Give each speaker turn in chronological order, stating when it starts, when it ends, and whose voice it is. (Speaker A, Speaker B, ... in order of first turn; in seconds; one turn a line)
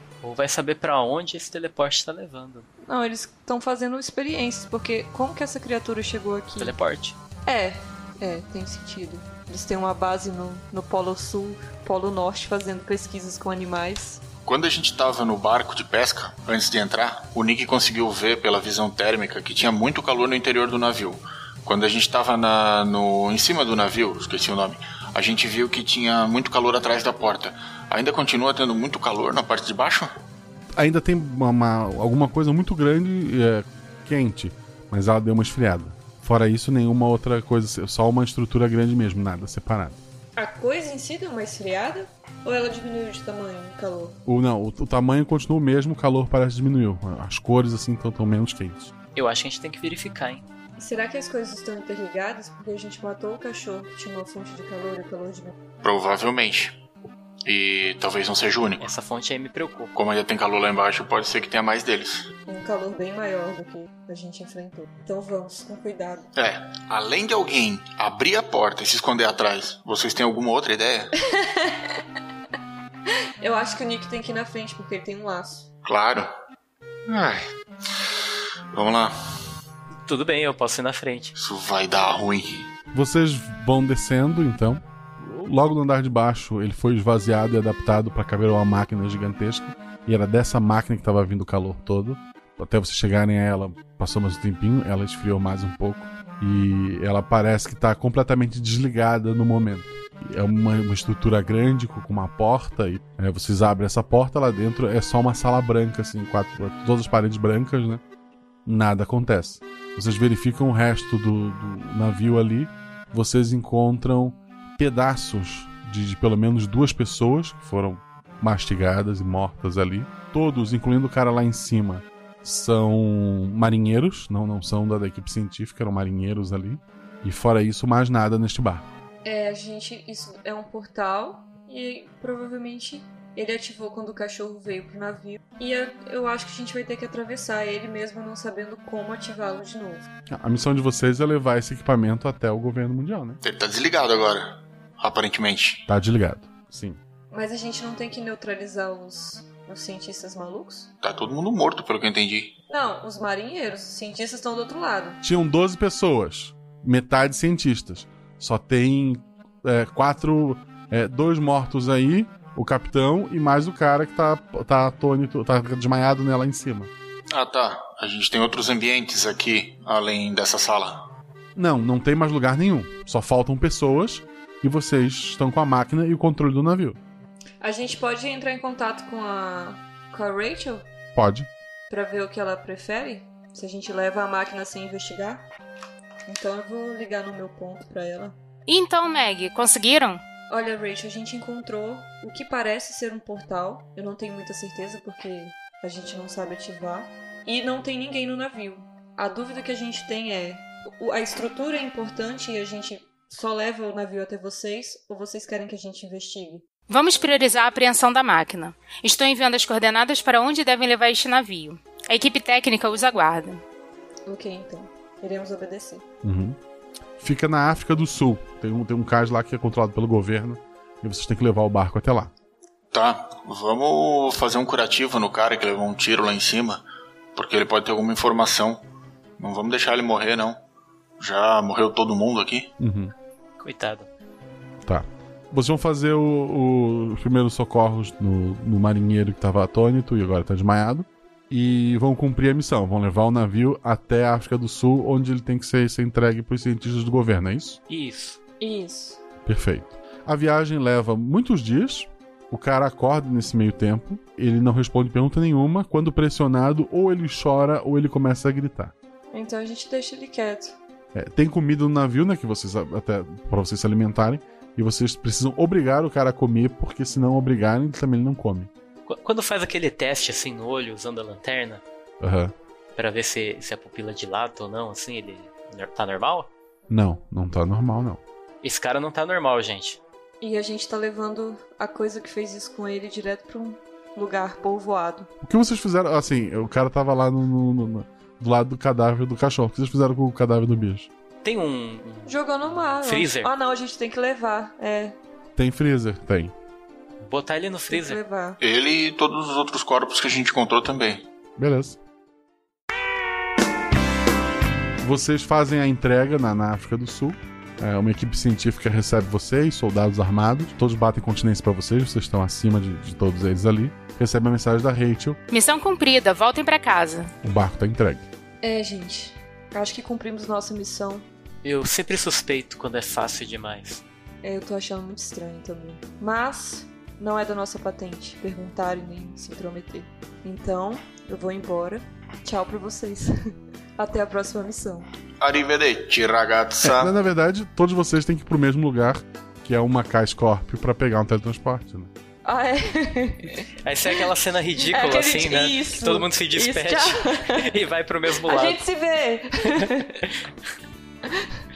Speaker A: 0.2-2.7
Speaker B: 2.8-6.7
Speaker A: 6.6-7.2
Speaker B: 7.5-14.2
Speaker C: 14.4-30.1
Speaker D: 30.8-40.0
Speaker B: 40.4-44.2
Speaker D: 44.3-48.9
Speaker A: 49.1-50.5
Speaker B: 50.8-55.5
Speaker C: 55.8-56.8
Speaker C: 57.5-58.9
Speaker A: 58.8-59.9
Speaker C: 60.0-62.3
Speaker B: 62.5-66.3
Speaker C: 66.4-71.1
Speaker B: 71.3-71.9
Speaker B: 73.4-75.7
Speaker C: 75.8-76.3
Speaker C: 77.1-77.5
Speaker C: 78.7-79.2
Speaker A: 80.1-81.3
Speaker C: 81.3-82.7
Speaker D: 82.9-108.0
Speaker D: 108.7-128.9
Speaker B: 129.2-140.1
Speaker D: 140.3-143.4
Speaker C: 143.4-145.8
Speaker D: 145.9-147.0
Speaker B: 147.3-150.9
Speaker C: 151.0-152.6
Speaker B: 152.7-155.2
Speaker D: 155.2-166.9
Speaker C: 167.3-171.0
Speaker D: 171.6-177.0
Speaker B: 177.6-180.9
Speaker D: 181.2-181.5
Speaker B: 181.9-185.4
Speaker B: 186.3-188.3
Speaker E: 188.7-190.2
Speaker B: 190.5-206.6
Speaker E: 206.9-213.6
Speaker B: 214.3-216.0
Speaker D: 216.2-216.6
Speaker D: 217.2-222.3
Speaker C: 222.9-226.8
Speaker C: 227.3-228.8
Speaker C: 229.4-230.6
Speaker C: 231.2-232.7
Speaker D: 232.8-233.1
Speaker A: 233.6-234.1
Speaker D: 234.9-247.8
Speaker A: 247.9-248.4
Speaker B: 248.6-249.2
Speaker D: 249.5-258.9
Speaker B: 259.3-260.8
Speaker D: 261.1-268.7
Speaker A: 269.1-271.8
Speaker D: 272.2-272.5
Speaker A: 273.0-276.5
Speaker D: 276.9-278.2
Speaker A: 278.6-280.0
Speaker B: 280.4-285.3
Speaker D: 285.4-291.1
Speaker A: 291.4-293.5
Speaker B: 292.3-295.2
Speaker D: 295.6-296.5
Speaker A: 297.2-298.2
Speaker B: 297.9-298.6
Speaker C: 298.6-301.2
Speaker D: 301.6-302.0
Speaker D: 305.0-315.4
Speaker E: 315.5-317.3
Speaker D: 317.4-318.2
Speaker B: 318.6-321.3
Speaker A: 321.6-324.0
Speaker B: 324.4-335.1
Speaker C: 335.4-337.1
Speaker D: 336.8-342.1
Speaker B: 342.4-343.6
Speaker A: 343.8-348.8
Speaker B: 344.8-347.6
Speaker B: 348.4-350.2
Speaker A: 349.8-350.3